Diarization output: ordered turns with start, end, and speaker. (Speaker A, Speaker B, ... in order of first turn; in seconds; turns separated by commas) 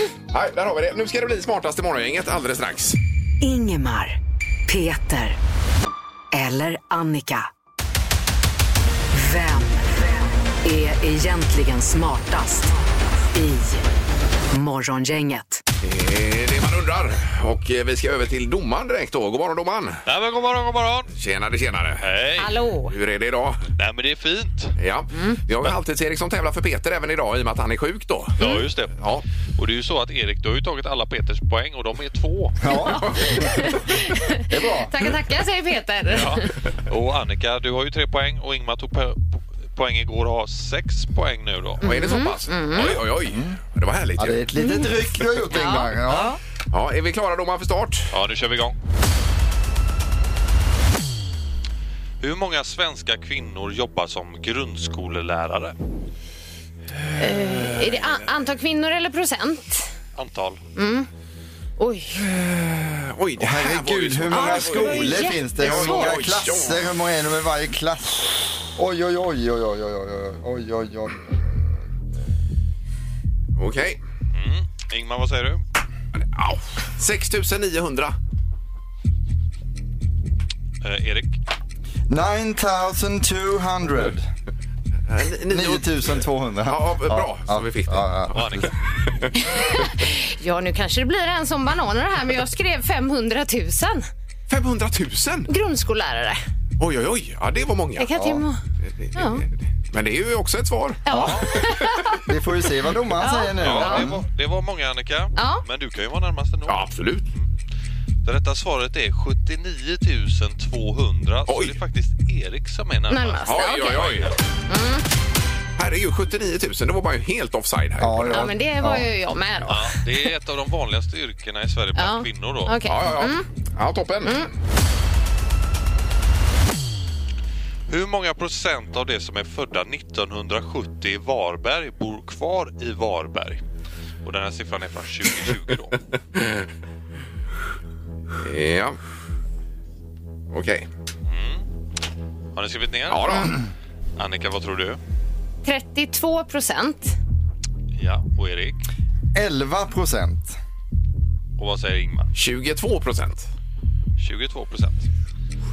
Speaker A: 0.3-3.0, Speaker B: 3.4-5.4, Speaker B: 6.3-7.5, Speaker B: 9.1-10.1, Speaker B: 10.6-12.7, Speaker B: 13.3-13.8, Speaker B: 14.5-15.6, Speaker A: 15.8-20.0, Speaker C: 20.1-21.1, Speaker A: 21.2-22.0, Speaker C: 22.0-22.6, Speaker D: 22.4-22.9, Speaker A: 22.9-23.6, Speaker C: 23.8-24.7, Speaker A: 24.8-28.4, Speaker D: 25.1-25.4, Speaker C: 28.4-32.6, Speaker A: 29.0-29.2, Speaker E: 32.6-33.0, Speaker D: 32.7-36.5, Speaker E: 34.5-34.9, Speaker C: 36.1-41.9, Speaker D: 41.8-43.0, Speaker A: 41.8-44.4, Speaker E: 43.2-43.6, Speaker E: 44.2-46.3, Speaker D: 44.6-44.9, Speaker D: 45.5-46.3, Speaker A: 46.7-48.1, Speaker C: 48.1-48.8, Speaker C: 52.2-55.7, Speaker D: 57.2-59.9, Speaker A: 57.6-58.0, Speaker C: 60.1-60.6, Speaker D: 60.8-61.1, Speaker D: 61.8-62.2, Speaker A: 62.1-66.9, Speaker E: 63.4-71.3, Speaker D: 64.3-66.2, Speaker A: 73.6-74.0, Speaker C: 74.3-75.6, Speaker A: 76.2-78.1, Speaker C: 80.8-81.4, Speaker E: 82.1-84.3, Speaker A: 85.1-89.3, Speaker E: 85.5-88.6, Speaker C: 88.3-88.7, Speaker D: 89.4-94.1, Speaker A: 94.5-95.5, Speaker D: 95.5-96.4, Speaker A: 96.8-98.1, Speaker D: 98.0-98.6, Speaker E: 98.1-98.4, Speaker A: 98.8-102.2, Speaker D: 99.1-99.4, Speaker D: 101.0-102.2, Speaker C: 101.1-101.5, Speaker E: 102.2-104.2, Speaker D: 103.2-104.1, Speaker C: 103.6-107.5, Speaker D: 105.3-105.6, Speaker A: 106.7-107.3, Speaker C: 108.2-114.3, Speaker A: 111.5-111.8, Speaker D: 113.1-115.0, Speaker A: 113.5-114.3, Speaker A: 115.8-118.5, Speaker E: 118.0-119.0, Speaker D: 118.3-120.0, Speaker C: 119.7-122.8, Speaker D: 122.0-123.5, Speaker A: 122.8-124.5, Speaker C: 127.9-133.6, Speaker C: 134.2-136.0, Speaker A: 138.4-139.0, Speaker A: 140.5-140.9, Speaker C: 141.2-141.6, Speaker C: 142.5-143.6, Speaker A: 143.1-143.6, Speaker C: 144.2-145.0, Speaker D: 145.6-147.2, Speaker C: 147.9-148.8, Speaker E: 149.3-150.6, Speaker C: 151.6-152.3, Speaker A: 152.3-153.5, Speaker C: 154.2-155.1